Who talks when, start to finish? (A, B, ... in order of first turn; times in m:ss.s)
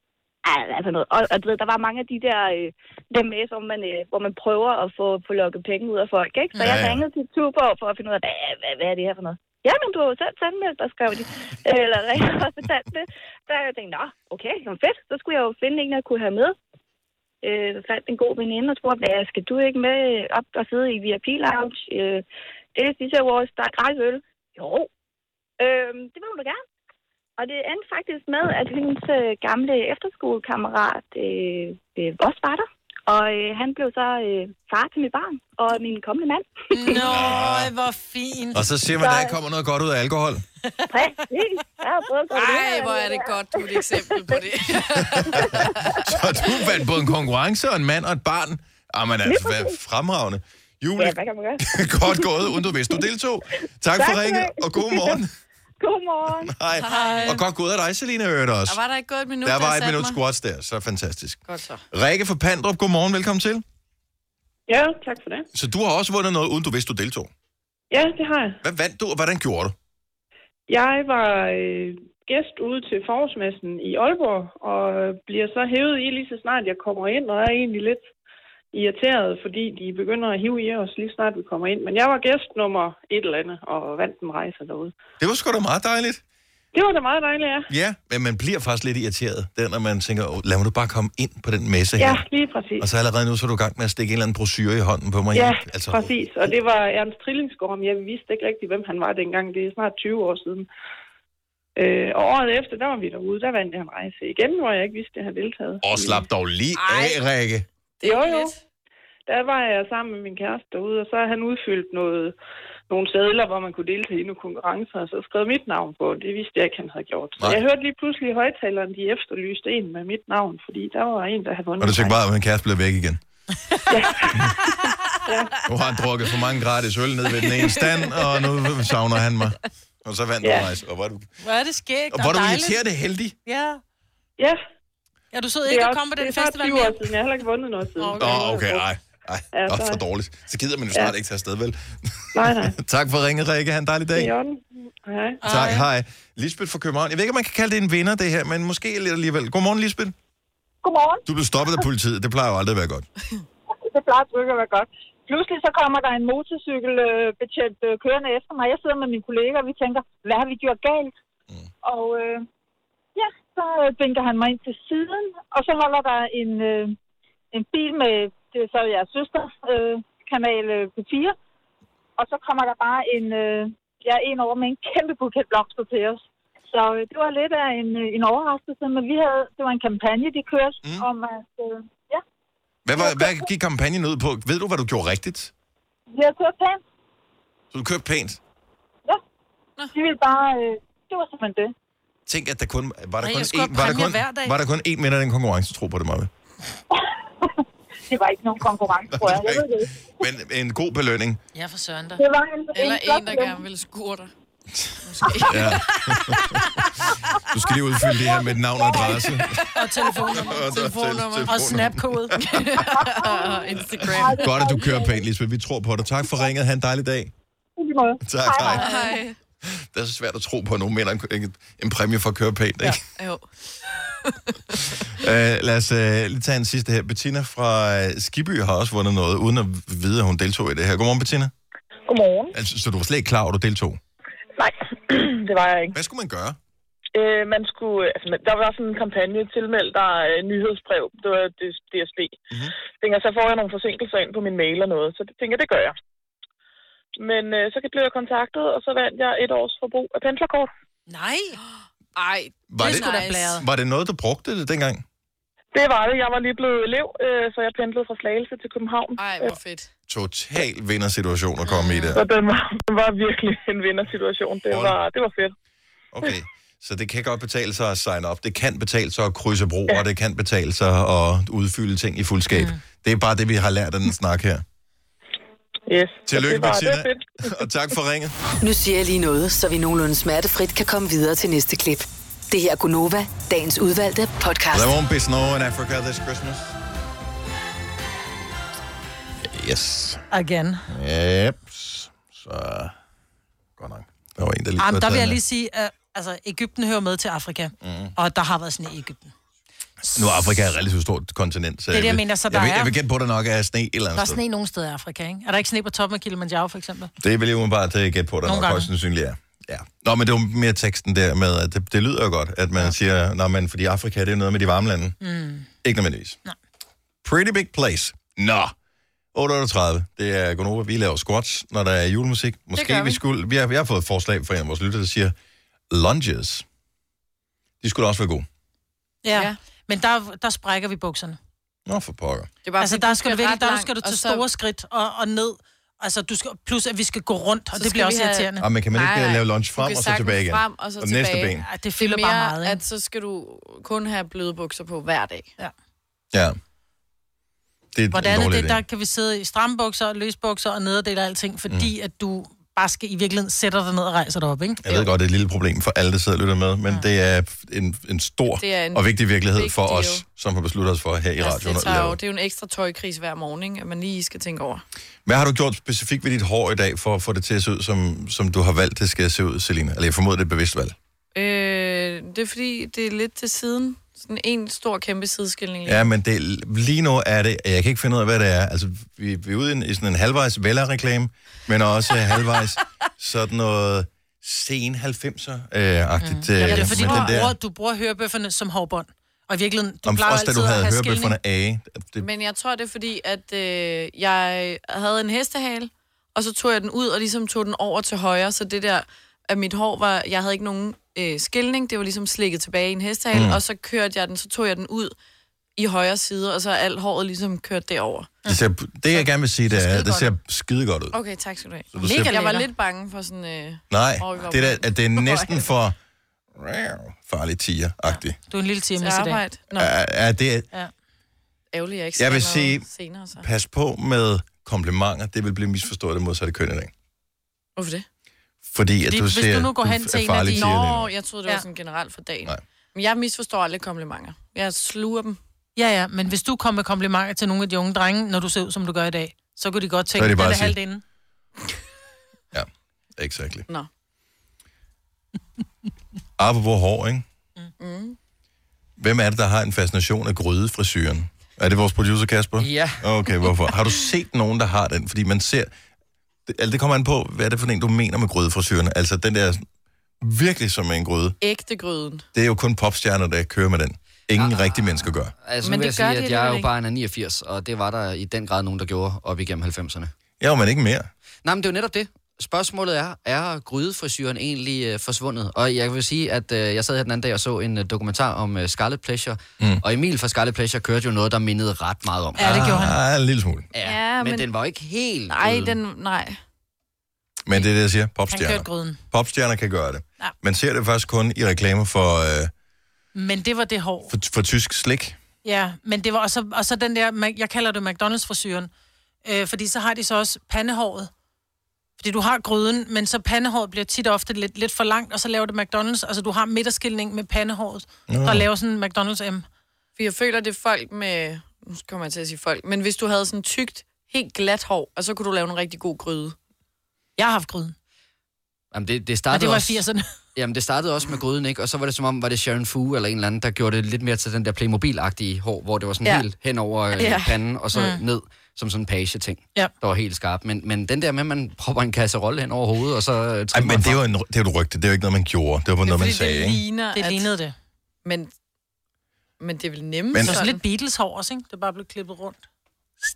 0:00.4-0:16.6 A
0:06.6-0:06.8 B
0:06.6-0:07.0 C
0:17.4-0:24.9 A
0:25.6-0:26.6 A
0:27.4-0:37.4 A
0:36.7-0:38.7 B
0:36.9-0:37.7 C
0:38.5-0:40.4 C
0:39.0-0:39.4 A
0:40.9-0:44.4 A
0:42.3-0:46.0 D
0:45.0-0:45.5 C
0:45.2-0:46.9 A
0:46.0-0:55.3 C
0:49.2-0:49.8 A
0:51.0-0:53.0 A
0:54.0-0:55.2 A
0:55.8-0:56.5 A
0:56.3-0:58.8 C
0:56.8-0:57.4 D
0:56.9-0:57.3 B
0:58.7-1:00.2 D
0:59.4-1:01.4 C
1:01.5-1:01.8 D
1:01.9-1:03.6 C
1:04.7-1:05.5 E
1:05.5-1:07.3 C
1:07.9-1:08.6 E
1:08.6-1:09.8 C
1:10.7-1:18.1 E
1:18.7-1:24.9 E
1:25.2-1:26.2 C
1:26.7-1:27.7 E
1:27.7-1:32.2 C
1:32.0-1:32.9 E
1:32.8-1:36.5 C
1:35.3-1:40.7 E
1:41.8-1:46.3 E
1:45.8-1:47.7 C
1:46.8-1:47.2 D
1:48.0-1:48.6 D
1:48.0-1:48.5 E
1:49.3-1:52.3 E
1:52.9-2:02.2 E
2:01.8-2:03.2 C
2:03.9-2:04.4 E
2:05.3-2:05.6 E
2:05.7-2:11.3 C
2:10.4-2:10.7 E
2:11.4-2:12.8 B
2:12.1-2:13.4 C
2:13.5-2:13.8 B
2:15.3-2:17.1 B
2:15.7-2:18.9 E
2:18.0-2:18.6 B
2:18.2-2:24.3 C
2:19.5-2:20.0 E
2:22.4-2:22.8 E
2:24.2-2:25.4 E
2:25.4-2:25.9 B
2:25.4-2:30.2 C
2:30.8-2:31.2 F
2:31.3-2:33.1 C
2:33.8-2:41.1 F
2:41.8-2:42.4 F
2:43.2-2:47.0 F
2:47.5-2:51.4 F
2:52.2-3:02.2 F
3:02.8-3:05.5 C
3:02.9-3:03.5 F
3:06.1-3:06.8 F
3:07.7-3:08.4 C
3:09.9-3:11.7 F
3:12.3-3:16.3 C
3:13.2-3:14.6 B
3:16.9-3:19.9 F
3:19.1-3:21.4 C
3:21.6-3:22.2 B
3:22.2-3:23.6 F
3:22.7-3:24.3 D
3:24.8-3:29.6 C
3:25.0-3:25.9 D
3:28.8-3:29.1 F
3:29.7-3:30.8 B
3:30.3-3:33.0 C
3:30.4-3:31.8 D
3:31.5-3:32.4 B
3:32.4-3:34.9 D
3:32.9-3:33.6 F
3:33.8-3:37.3 C
3:34.1-3:35.2 F
3:37.8-3:39.2 F
3:38.2-3:38.9 C
3:38.6-3:39.4 D
3:39.6-3:43.0 C
3:42.8-3:45.0 D
3:45.0-3:51.5 C
3:52.1-3:52.5 G
3:52.5-3:54.0 C
3:54.6-3:56.0 G
3:55.9-3:56.6 C
3:57.2-4:02.4 G
4:03.0-4:06.0 G
4:07.2-4:10.7 G
4:11.1-4:11.6 B
4:12.2-4:13.6 D
4:12.7-4:15.0 C
4:12.8-4:13.6 B
4:15.7-4:19.6 G
4:19.2-4:19.9 D
4:20.1-4:22.2 C
4:21.7-4:22.2 D
4:22.2-4:25.5 G
4:24.7-4:25.0 C
4:26.1-4:34.6 C
4:32.5-4:32.8 B
4:35.9-4:37.3 G
4:36.3-4:38.4 C
4:38.6-4:44.9 H
4:44.7-4:46.7 C
4:49.4-4:50.2 C
4:50.3-4:50.9 B
4:50.9-4:52.9 C
4:53.8-4:55.4 C
4:54.8-4:59.3 B
4:57.8-4:58.1 C
5:00.1-5:04.4 C
5:01.9-5:03.0 B
5:04.2-5:07.1 B
5:07.2-5:15.2 C
5:08.4-5:08.9 B
5:15.2-5:15.7 B
5:15.8-5:16.4 C
5:17.2-5:18.7 C
5:19.3-5:25.4 C
5:22.8-5:23.2 D
5:25.9-5:26.6 C
5:27.8-5:28.5 C
5:29.2-5:31.4 B
5:29.3-5:29.6 D
5:31.9-5:32.5 C
5:32.6-5:34.4 D
5:32.8-5:38.7 B
5:37.8-5:45.5 D
5:38.6-5:41.6 C
5:41.6-5:42.8 B
5:47.9-5:48.8 C
5:48.1-5:54.8 B
5:54.8-6:02.2 C
5:58.6-6:00.2 D
6:01.4-6:04.8 D
6:05.3-6:11.0 C
6:11.3-6:16.1 D
6:15.9-6:27.5 C
6:26.2-6:31.4 B
6:26.6-6:27.4 D
6:30.0-6:32.3 C
6:32.2-6:45.2 D
6:43.3-6:43.6 C
6:45.8-6:48.3 D
6:48.5-6:51.2 C
6:49.1-6:50.3 B
6:51.1-6:55.7 D
6:51.9-6:52.3 C
6:52.0-6:52.7 B
6:53.9-6:56.0 C
6:56.6-6:58.4 C
6:58.1-6:59.4 B
6:59.0-6:59.9 D
6:59.8-7:00.7 C
7:01.7-7:03.5 D
7:02.2-7:02.8 C
7:03.4-7:06.9 C
7:07.8-7:08.1 D
7:08.7-7:11.1 C
7:09.1-7:10.8 B
7:10.5-7:15.4 D
7:15.8-7:21.0 B
7:20.2-7:20.8 C
7:22.5-7:23.7 C
7:26.4-7:27.2 C
7:27.8-7:28.2 D
7:29.0-7:35.7 C
7:32.6-7:33.0 I
7:36.5-7:39.6 C
7:40.2-7:41.4 C
7:41.4-7:42.2 D
7:42.3-7:45.3 C
7:44.3-7:50.1 I
7:45.6-7:46.7 D
7:50.4-7:51.1 C
7:51.4-8:02.8 I
8:02.4-8:03.0 B
8:02.4-8:03.7 C
8:03.7-8:05.8 I
8:03.8-8:04.5 D
8:05.3-8:06.4 D
8:07.5-8:12.5 C
8:08.3-8:09.0 B
8:13.2-8:14.1 B
8:14.1-8:15.2 C
8:15.4-8:18.7 B
8:19.2-8:21.1 B
8:22.0-8:29.4 B
8:28.1-8:28.5 C
8:30.0-8:36.4 D
8:37.2-8:37.8 B
8:38.7-8:39.8 I
8:39.3-8:40.1 B
8:40.4-8:54.0 I
8:47.0-8:47.3 D
8:47.7-8:48.0 B
8:53.5-8:56.6 C
8:55.8-8:57.3 D
8:57.0-8:57.5 B
8:58.0-8:58.3 D
8:59.4-9:00.6 D
9:00.2-9:02.4 B